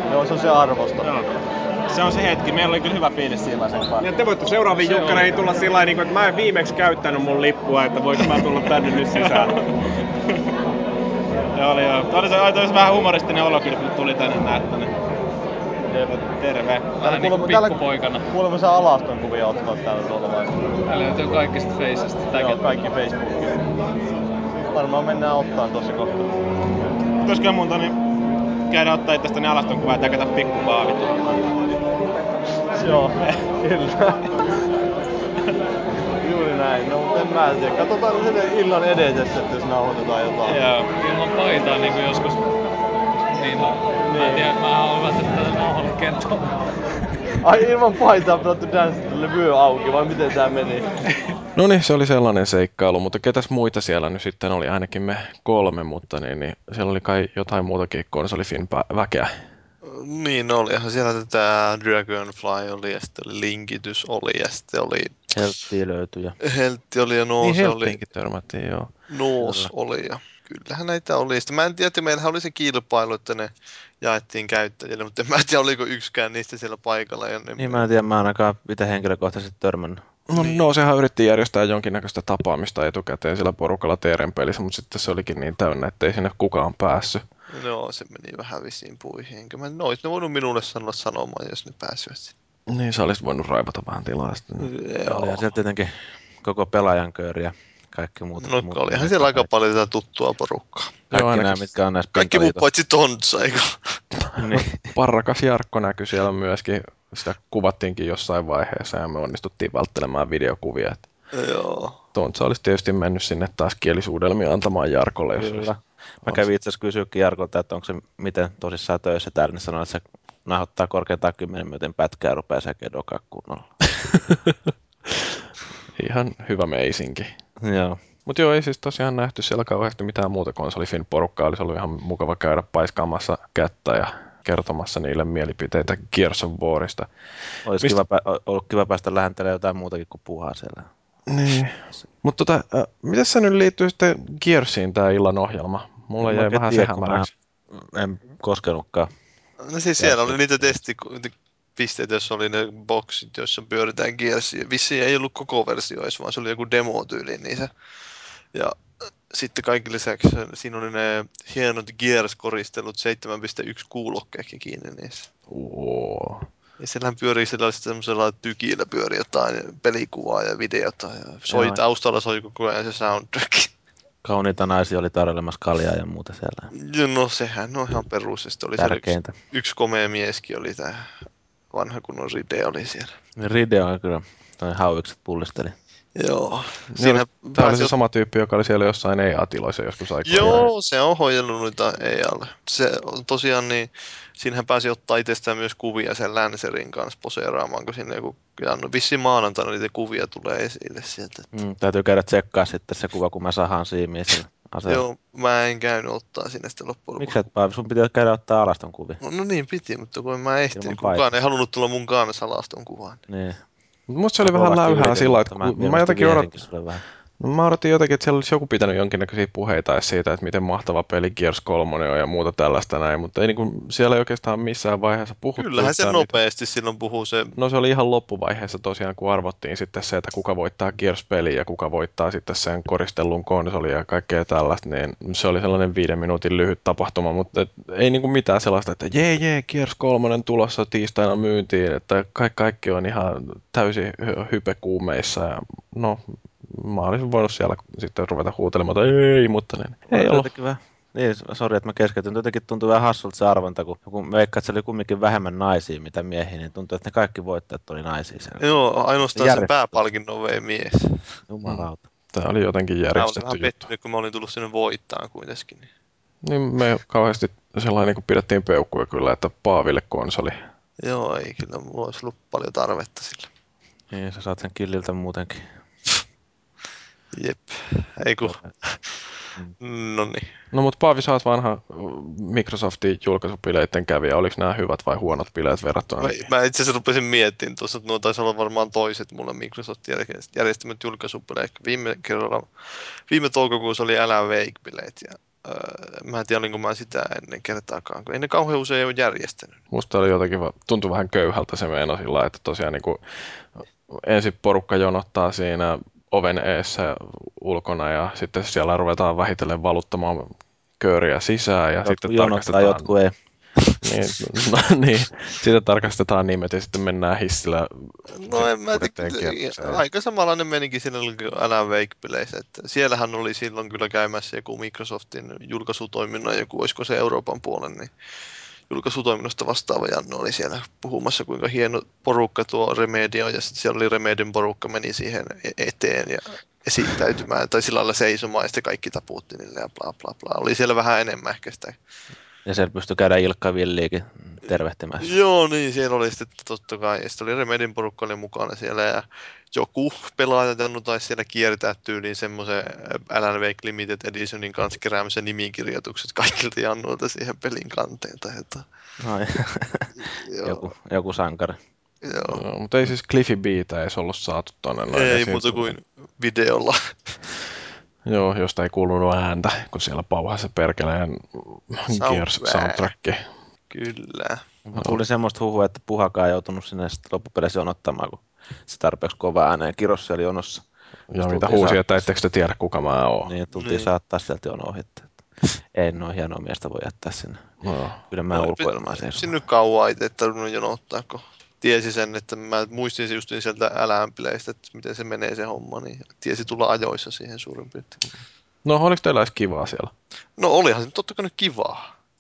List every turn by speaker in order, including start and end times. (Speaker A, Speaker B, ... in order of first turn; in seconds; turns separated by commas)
Speaker A: 0.1-1.1, Speaker B: 1.0-4.1, Speaker C: 4.0-9.5, Speaker D: 4.7-5.3, Speaker B: 8.2-9.6, Speaker B: 11.5-14.9, Speaker B: 15.9-17.0, Speaker D: 17.0-18.3, Speaker A: 17.1-17.8, Speaker A: 18.3-20.6, Speaker D: 20.9-22.8, Speaker A: 22.4-23.6, Speaker A: 24.7-26.3, Speaker B: 27.2-28.0, Speaker B: 28.7-31.5, Speaker A: 32.8-34.2, Speaker A: 36.2-40.6, Speaker B: 40.5-40.8, Speaker D: 40.5-42.4, Speaker D: 43.3-46.5, Speaker A: 44.0-44.5, Speaker A: 47.4-50.9, Speaker E: 51.6-59.3, Speaker F: 59.8-65.2, Speaker G: 65.3-66.4, Speaker F: 66.5-68.0, Speaker E: 67.4-68.9, Speaker F: 69.1-77.8, Speaker G: 69.4-69.7, Speaker G: 77.6-80.0, Speaker E: 80.3-87.2, Speaker F: 80.3-80.6, Speaker F: 87.5-92.3, Speaker E: 92.7-94.7, Speaker F: 94.6-95.5, Speaker G: 95.1-95.9, Speaker G: 96.4-99.5, Speaker F: 98.4-101.1, Speaker G: 101.1-102.7, Speaker E: 101.1-101.7, Speaker F: 102.2-104.0, Speaker G: 104.4-104.9, Speaker E: 104.9-111.0, Speaker F: 111.3-112.0, Speaker E: 112.1-115.7, Speaker G: 115.4-123.7, Speaker E: 126.0-127.3, Speaker G: 127.6-128.0, Speaker E: 128.3-137.1, Speaker G: 137.7-140.9, Speaker E: 141.3-147.3, Speaker G: 146.2-149.1, Speaker F: 149.6-157.7, Speaker G: 150.0-150.8, Speaker F: 159.3-165.3, Speaker E: 165.5-166.5, Speaker F: 166.8-173.7, Speaker G: 171.5-171.8, Speaker G: 174.2-176.7, Speaker F: 176.9-181.1, Speaker G: 178.8-179.3, Speaker F: 181.7-183.1, Speaker G: 183.4-185.8, Speaker F: 186.2-187.9, Speaker E: 186.9-190.7, Speaker F: 190.2-201.5, Speaker G: 201.5-205.0, Speaker F: 204.9-207.4, Speaker G: 207.2-209.2, Speaker F: 209.2-213.2, Speaker G: 210.7-211.3, Speaker G: 213.3-213.6, Speaker E: 214.1-216.5, Speaker G: 214.4-217.0, Speaker E: 217.4-226.3, Speaker F: 225.6-227.5, Speaker E: 227.6-250.5, Speaker G: 250.1-258.7, Speaker F: 258.6-261.1, Speaker G: 259.3-259.7, Speaker G: 261.5-262.1, Speaker E: 261.6-263.8, Speaker F: 263.1-265.9, Speaker E: 266.4-270.6, Speaker F: 271.0-273.5, Speaker G: 274.1-275.6, Speaker F: 277.3-279.2, Speaker G: 278.4-278.7, Speaker F: 279.8-280.4, Speaker E: 280.7-286.4, Speaker F: 286.2-292.7, Speaker F: 293.3-299.8, Speaker E: 299.9-303.2, Speaker E: 303.8-313.1, Speaker G: 312.0-313.3, Speaker E: 314.0-320.0, Speaker F: 318.3-328.1, Speaker F: 328.9-342.0, Speaker G: 342.6-345.4, Speaker F: 345.2-358.9, Speaker G: 359.2-361.8, Speaker F: 360.2-360.9, Speaker F: 362.2-362.6, Speaker E: 362.5-365.9, Speaker F: 365.1-367.4, Speaker E: 368.3-373.4, Speaker F: 372.1-373.1, Speaker F: 373.9-374.6, Speaker G: 374.9-380.9, Speaker E: 381.3-383.5, Speaker G: 381.4-382.3, Speaker G: 383.4-387.6, Speaker F: 383.7-384.1, Speaker E: 387.8-388.2, Speaker G: 388.3-389.6, Speaker F: 388.5-398.2, Speaker E: 398.9-400.1, Speaker F: 400.6-402.1